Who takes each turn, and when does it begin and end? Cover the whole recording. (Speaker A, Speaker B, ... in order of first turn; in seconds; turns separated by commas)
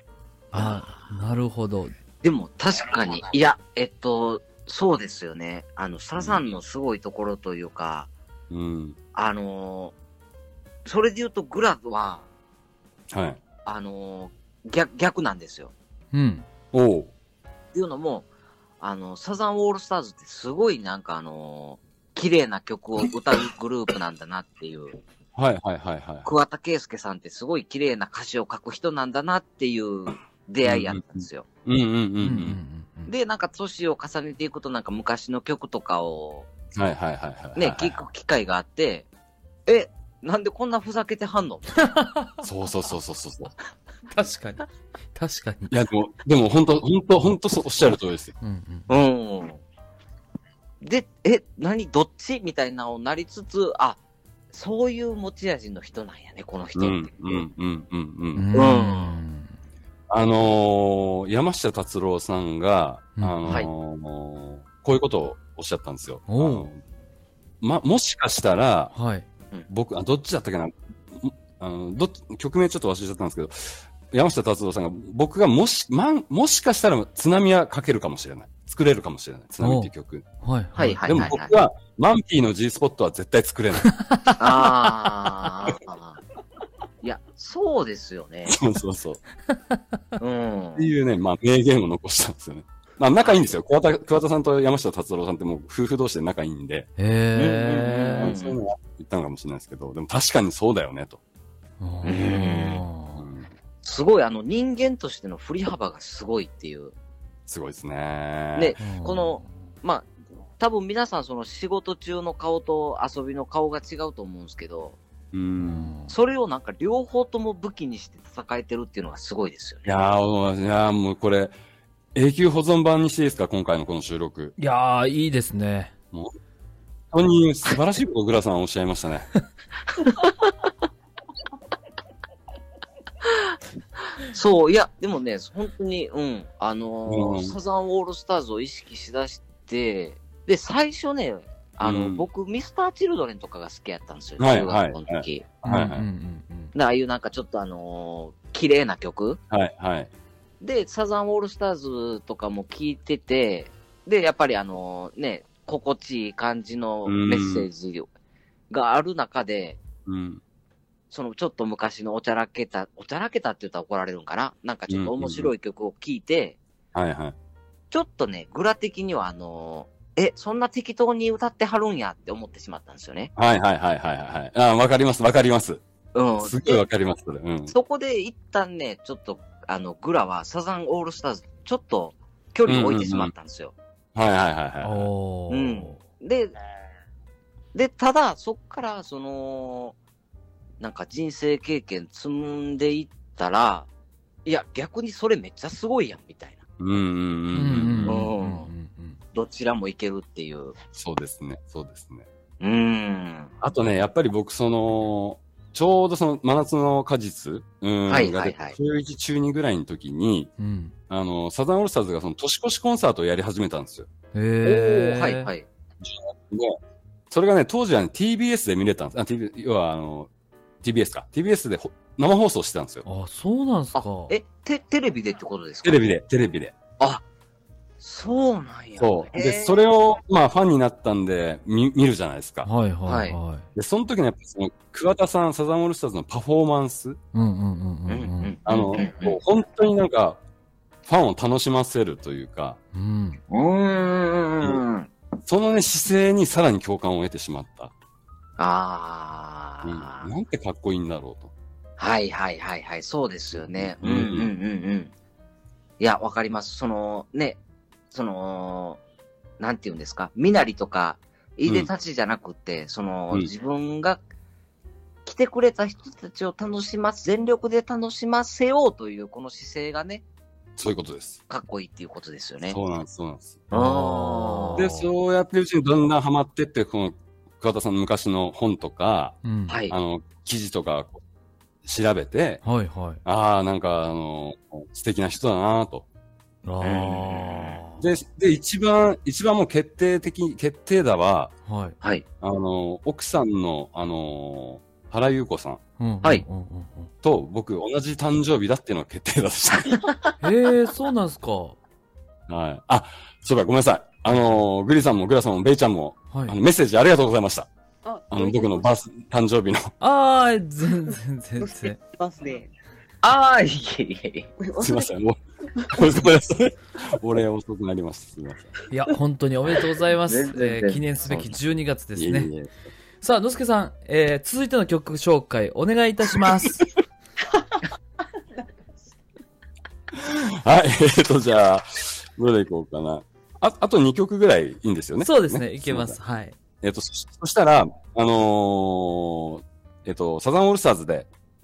Speaker A: 0.5-1.0, Speaker B: 0.5-1.9, Speaker A: 2.2-8.1, Speaker C: 8.5-9.0, Speaker A: 9.1-9.9, Speaker A: 10.8-12.3, Speaker C: 13.1-13.4, Speaker A: 13.6-15.7, Speaker B: 16.1-16.4, Speaker C: 16.7-17.1, Speaker A: 17.7-18.3, Speaker A: 18.8-25.0, Speaker C: 25.3-26.3, Speaker A: 26.2-31.4, Speaker C: 30.6-32.6, Speaker B: 32.2-33.1, Speaker A: 33.1-36.5, Speaker C: 36.7-38.0, Speaker A: 37.5-39.1, Speaker A: 39.6-41.8, Speaker B: 42.0-42.3, Speaker C: 42.4-43.5, Speaker B: 44.1-45.7, Speaker C: 45.7-48.3, Speaker B: 48.4-48.9, Speaker A: 48.9-49.6, Speaker A: 50.8-54.0, Speaker A: 54.5-57.4, Speaker C: 56.7-58.5, Speaker B: 58.4-59.5, Speaker A: 58.5-59.2, Speaker C: 60.1-66.8, Speaker B: 63.2-63.5, Speaker B: 66.3-66.7, Speaker C: 67.6-68.9, Speaker B: 68.9-69.2, Speaker C: 69.7-80.2, Speaker B: 79.6-79.9, Speaker B: 80.4-81.3, Speaker A: 80.8-81.5, Speaker C: 81.0-83.9, Speaker A: 84.4-86.2, Speaker A: 87.0-88.6, Speaker C: 88.5-89.2, Speaker A: 90.2-90.9, Speaker C: 90.8-96.9, Speaker A: 93.2-93.5, Speaker B: 97.0-98.3, Speaker A: 97.3-98.6, Speaker C: 98.2-101.2, Speaker B: 101.8-103.2, Speaker A: 102.0-102.8, Speaker C: 103.2-103.5, Speaker A: 103.8-106.9, Speaker C: 107.5-108.8, Speaker A: 108.5-115.0, Speaker B: 108.8-109.5, Speaker C: 115.3-115.9, Speaker B: 115.6-116.1, Speaker A: 116.1-120.0, Speaker C: 119.8-121.6, Speaker C: 122.1-124.5, Speaker B: 124.6-125.9, Speaker C: 127.1-129.3, Speaker A: 134.3-145.5, Speaker C: 137.1-137.6, Speaker C: 141.8-142.3, Speaker C: 144.4-146.1, Speaker B: 145.6-146.7, Speaker A: 146.7-149.4, Speaker C: 149.5-150.1, Speaker A: 150.6-158.1, Speaker C: 157.0-157.7, Speaker A: 158.7-159.8, Speaker C: 160.1-160.4, Speaker A: 161.1-166.6, Speaker C: 164.9-165.5, Speaker C: 166.9-167.3, Speaker A: 167.9-173.3, Speaker C: 173.3-175.8, Speaker A: 176.1-176.8, Speaker C: 176.4-177.7, Speaker A: 177.7-183.7, Speaker C: 182.7-183.3, Speaker C: 184.1-185.1, Speaker B: 184.8-186.0, Speaker A: 185.5-186.5, Speaker A: 187.7-189.9, Speaker A: 190.8-193.9, Speaker A: 194.4-196.6, Speaker C: 196.8-198.2, Speaker B: 197.5-199.2, Speaker A: 198.0-198.7, Speaker A: 199.3-200.7, Speaker C: 200.9-202.2, Speaker A: 202.6-203.5, Speaker C: 203.6-210.5, Speaker A: 208.1-208.7, Speaker B: 210.6-210.9, Speaker C: 211.1-214.1, Speaker B: 214.3-215.5, Speaker A: 214.6-215.7, Speaker C: 216.0-216.8, Speaker C: 217.3-220.3, Speaker C: 220.8-223.1, Speaker B: 223.0-224.3, Speaker A: 223.9-226.1, Speaker C: 225.8-226.7, Speaker A: 228.0-229.8, Speaker C: 229.0-232.7, Speaker B: 232.6-233.7, Speaker A: 233.0-233.4, Speaker C: 233.7-237.2, Speaker B: 237.3-238.9, Speaker A: 238.1-239.4, Speaker C: 238.6-240.4, Speaker C: 241.0-242.8, Speaker B: 242.9-243.4, Speaker A: 243.5-245.1, Speaker C: 245.4-247.9, Speaker A: 248.6-250.3, Speaker C: 249.8-251.5, Speaker A: 252.0-255.1, Speaker C: 253.5-254.5, Speaker A: 256.0-257.6, Speaker A: 258.1-259.0, Speaker A: 259.6-264.2, Speaker C: 261.6-261.9, Speaker A: 265.2-270.2, Speaker C: 270.8-271.4, Speaker A: 271.5-272.8, Speaker C: 272.6-273.7, Speaker A: 273.7-274.9, Speaker B: 273.7-275.1, Speaker C: 274.8-281.2, Speaker B: 279.4-279.8, Speaker A: 279.7-279.9, Speaker C: 281.8-282.6, Speaker B: 282.6-283.2, Speaker C: 283.2-286.1, Speaker B: 286.6-288.0, Speaker A: 286.8-287.8, Speaker C: 288.0-291.5, Speaker B: 291.6-292.0, Speaker C: 292.4-295.8, Speaker B: 296.0-297.1, Speaker C: 297.2-300.1, Speaker B: 300.4-301.8, Speaker C: 302.5-307.7, Speaker B: 304.2-304.6, Speaker B: 306.3-306.6, Speaker D: 308.0-308.9, Speaker C: 308.3-309.9, Speaker B: 310.0-312.0, Speaker D: 311.6-312.7, Speaker A: 313.2-314.5, Speaker D: 314.6-315.1, Speaker C: 314.8-315.4, Speaker D: 315.8-316.0, Speaker C: 315.9-318.8, Speaker B: 318.9-322.5, Speaker A: 320.1-321.5, Speaker C: 322.1-322.7, Speaker B: 323.2-326.9, Speaker C: 330.2-336.2, Speaker B: 335.2-336.6, Speaker C: 336.8-341.3